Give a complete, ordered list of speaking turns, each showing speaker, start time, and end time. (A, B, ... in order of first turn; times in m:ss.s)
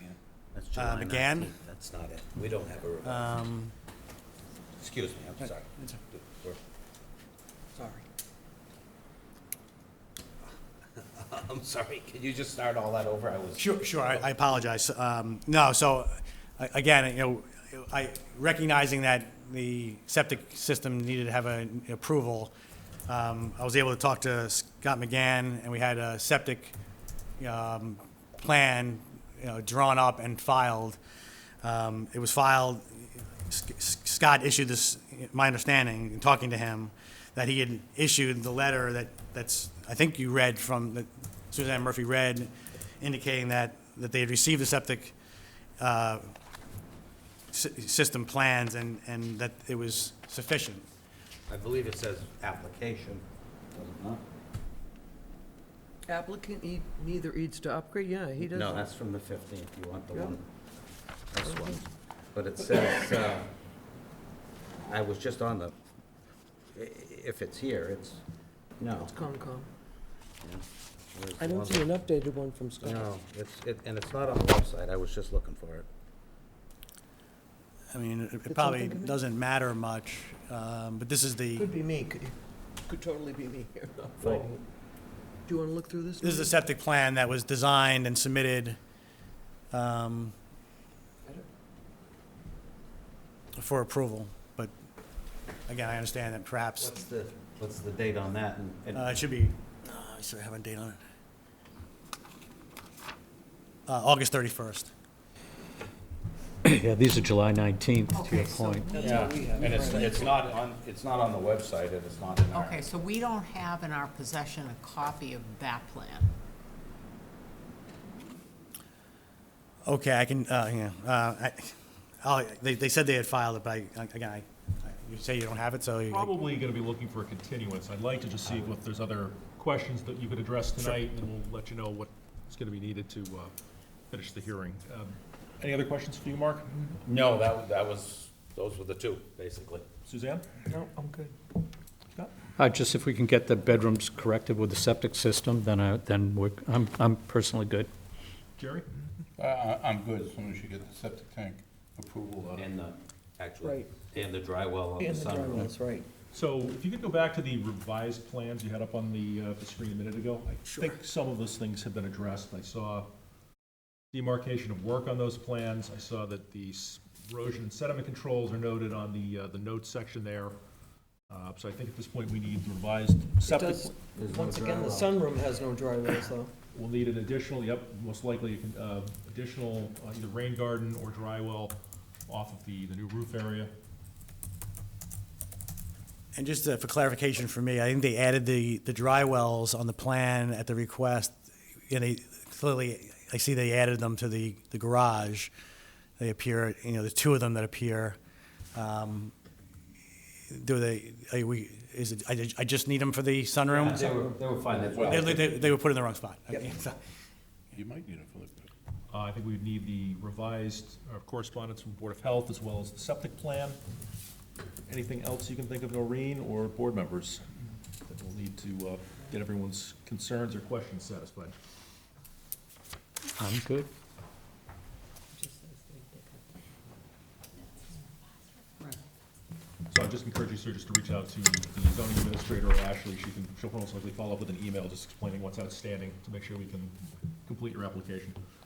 0:00.5-0:03.3 A
0:00.7-0:01.5 B
0:03.0-0:03.7 B
0:04.8-0:06.6 A
0:05.4-0:06.0 B
0:07.7-0:08.0 C
0:11.0-0:14.2 A
0:13.6-0:22.5 B
0:23.1-0:26.8 B
0:27.4-0:31.0 B
0:31.6-0:45.2 B
0:45.8-0:46.3 B
0:47.5-0:50.8 B
0:51.5-0:54.2 A
0:56.0-0:58.8 C
0:58.4-1:00.4 A
1:00.1-1:00.4 C
1:01.3-1:03.5 A
1:01.3-1:01.8 C
1:04.8-1:05.7 A
1:06.7-1:08.2 A
1:08.8-1:09.1 A
1:09.1-1:09.7 C
1:10.4-1:11.9 A
1:11.4-1:13.1 C
1:12.8-1:15.9 A
1:17.9-1:21.7 B
1:18.5-1:19.2 C
1:21.5-1:24.6 C
1:24.2-1:24.5 A
1:25.4-1:26.6 C
1:26.2-1:28.8 B
1:29.7-1:30.3 B
1:33.6-1:34.7 B
1:35.7-1:36.9 B
1:36.8-1:39.1 A
1:38.9-1:41.0 B
1:43.9-1:44.9 B
1:46.6-1:48.9 D
1:48.1-1:49.0 E
1:48.8-1:50.3 C
1:49.0-1:52.8 A
1:52.5-1:56.3 E
1:59.8-2:06.3 B
2:06.1-2:13.5 F
2:14.1-2:16.9 F
2:17.0-2:19.8 A
2:20.0-2:20.4 F
2:20.7-2:21.3 C
2:22.6-2:27.9 D
2:28.6-2:28.8 F
2:29.4-2:32.6 G
2:32.6-2:35.7 A
2:33.6-2:33.9 C
2:35.0-2:36.1 C
2:36.3-2:43.1 F
2:40.7-2:41.0 C
2:44.1-2:50.6 F
2:51.3-2:53.9 F
2:53.4-2:56.5 C
2:54.2-2:55.2 A
2:56.7-3:01.8 F
3:02.3-3:03.7 F
3:06.3-3:11.4 B
3:11.9-3:15.5 B
3:16.2-3:18.2 B
3:18.7-3:19.3 B
3:20.5-3:24.3 B
3:23.7-3:25.5 A
3:24.8-3:25.5 G
3:25.0-3:27.0 B
3:27.7-3:28.7 G
3:29.1-3:33.8 F
3:34.9-3:37.4 F
3:38.0-3:41.5 F
3:43.4-3:43.9 D
3:45.3-3:46.4 E
3:49.9-3:56.9 F
3:57.4-3:58.4 F